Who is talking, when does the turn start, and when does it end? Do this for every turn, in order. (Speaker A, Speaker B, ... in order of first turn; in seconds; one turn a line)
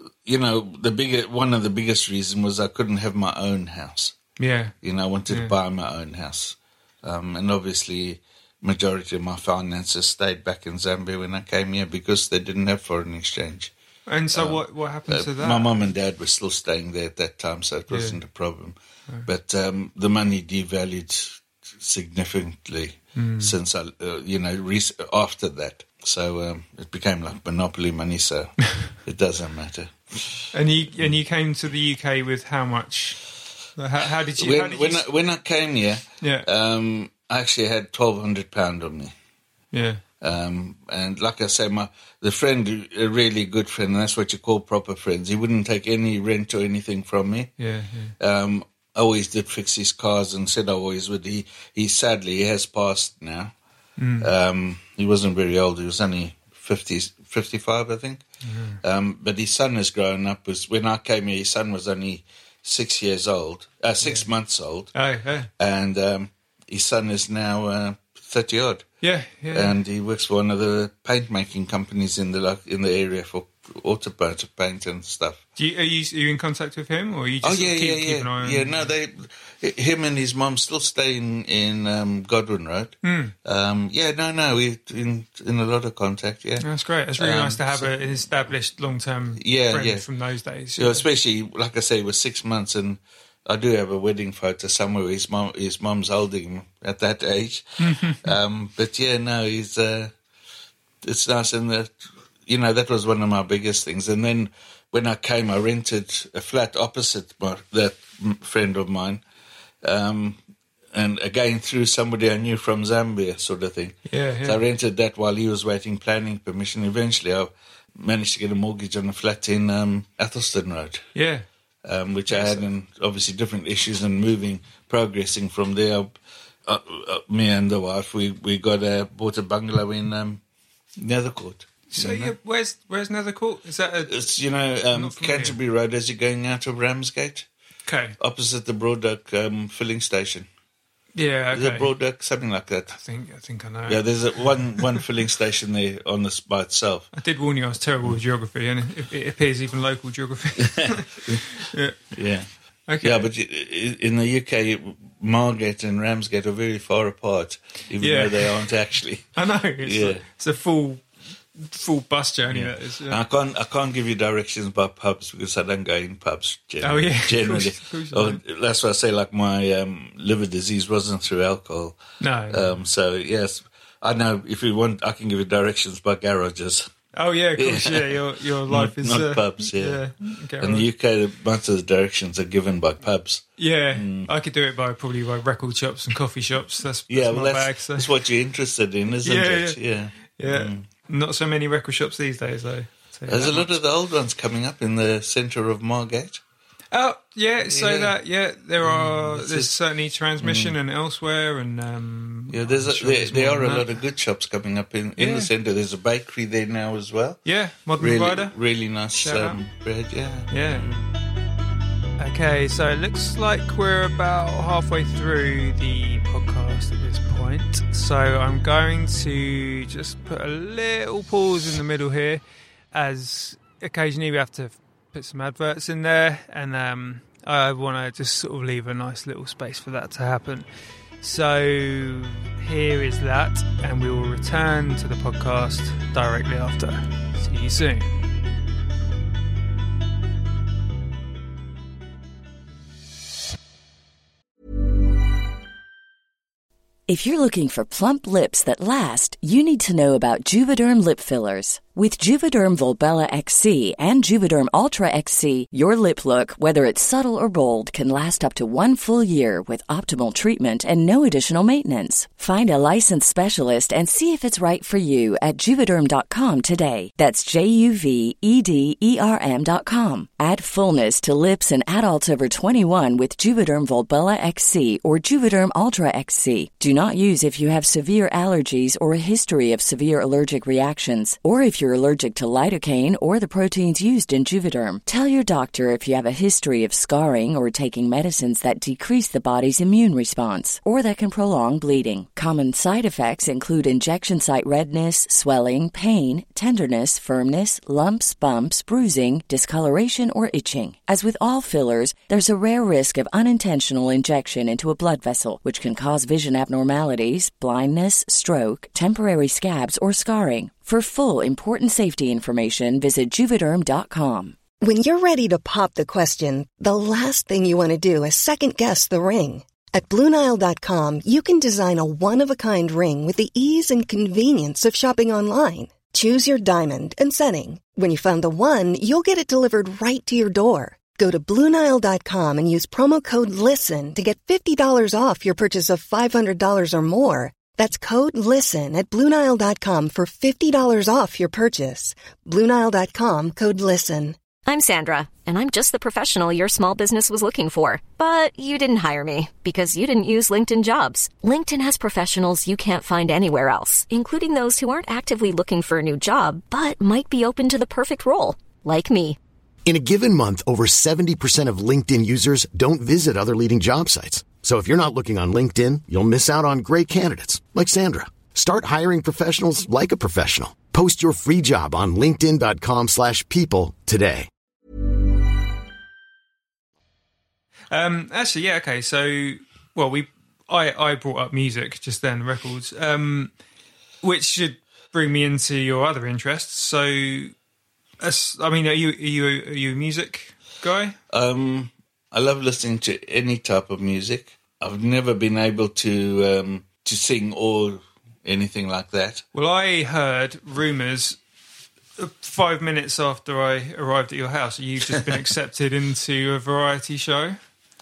Speaker A: 0.2-4.2
Speaker B: 4.4-4.7
Speaker A: 4.8-13.7
Speaker B: 5.3-5.5
Speaker B: 14.1-15.9
Speaker A: 14.3-31.1
Speaker B: 17.9-18.2
Speaker B: 23.1-23.5
Speaker B: 30.5-33.2
Speaker B: 33.8-35.0
Speaker A: 34.4-39.1
Speaker B: 36.2-36.5
Speaker B: 39.7-40.0
Speaker A: 40.2-47.5
Speaker B: 47.6-48.1
Speaker A: 48.2-53.5
Speaker B: 54.0-54.3
Speaker A: 54.2-58.2
Speaker B: 58.4-58.8
Speaker A: 58.8-64.9
Speaker B: 64.0-64.3
Speaker B: 64.9-65.5
Speaker A: 65.6-68.9
Speaker B: 69.0-69.8
Speaker A: 69.5-75.4
Speaker B: 75.6-78.9
Speaker A: 77.4-86.7
Speaker B: 83.0-83.3
Speaker B: 86.6-91.0
Speaker A: 87.2-88.0
Speaker A: 89.4-90.0
Speaker A: 90.8-100.1
Speaker B: 97.8-98.3
Speaker A: 101.0-109.2
Speaker A: 109.8-110.4
Speaker A: 110.9-121.0
Speaker B: 114.1-114.6
Speaker B: 121.1-121.5
Speaker A: 121.8-130.4
Speaker B: 122.3-122.7
Speaker A: 131.0-132.3
Speaker B: 131.9-134.2
Speaker A: 134.1-137.5
Speaker B: 134.9-135.6
Speaker B: 137.8-138.2
Speaker A: 138.2-140.5
Speaker B: 141.1-141.9
Speaker A: 141.5-143.0
Speaker B: 142.9-145.0
Speaker A: 143.9-147.1
Speaker B: 147.1-152.0
Speaker A: 150.6-151.4
Speaker A: 152.1-159.3
Speaker B: 152.9-153.3
Speaker B: 158.0-158.5
Speaker B: 159.3-161.0
Speaker A: 159.8-160.2
Speaker B: 161.5-163.2
Speaker A: 162.5-176.9
Speaker B: 166.8-168.4
Speaker B: 172.2-172.8
Speaker B: 177.1-180.9
Speaker A: 177.6-180.0
Speaker A: 180.6-184.3
Speaker B: 183.6-188.1
Speaker A: 187.1-190.8
Speaker B: 189.2-193.8
Speaker A: 193.3-196.4
Speaker B: 196.9-203.9
Speaker A: 197.6-198.2
Speaker A: 198.8-199.8
Speaker A: 200.4-200.8
Speaker A: 202.5-211.1
Speaker B: 205.2-205.5
Speaker B: 207.4-208.6
Speaker B: 209.1-209.6
Speaker B: 210.5-210.9
Speaker B: 212.2-222.4
Speaker B: 222.9-230.7
Speaker B: 231.2-238.1
Speaker C: 247.1-314.6
Speaker D: 314.8-344.4
Speaker E: 344.6-359.4
Speaker F: 359.8-374.5
Speaker B: 377.9-383.5
Speaker B: 384.2-387.5
Speaker B: 388.2-391.2
Speaker A: 391.3-399.4
Speaker B: 399.5-401.4
Speaker B: 402.2-407.6
Speaker A: 405.1-405.4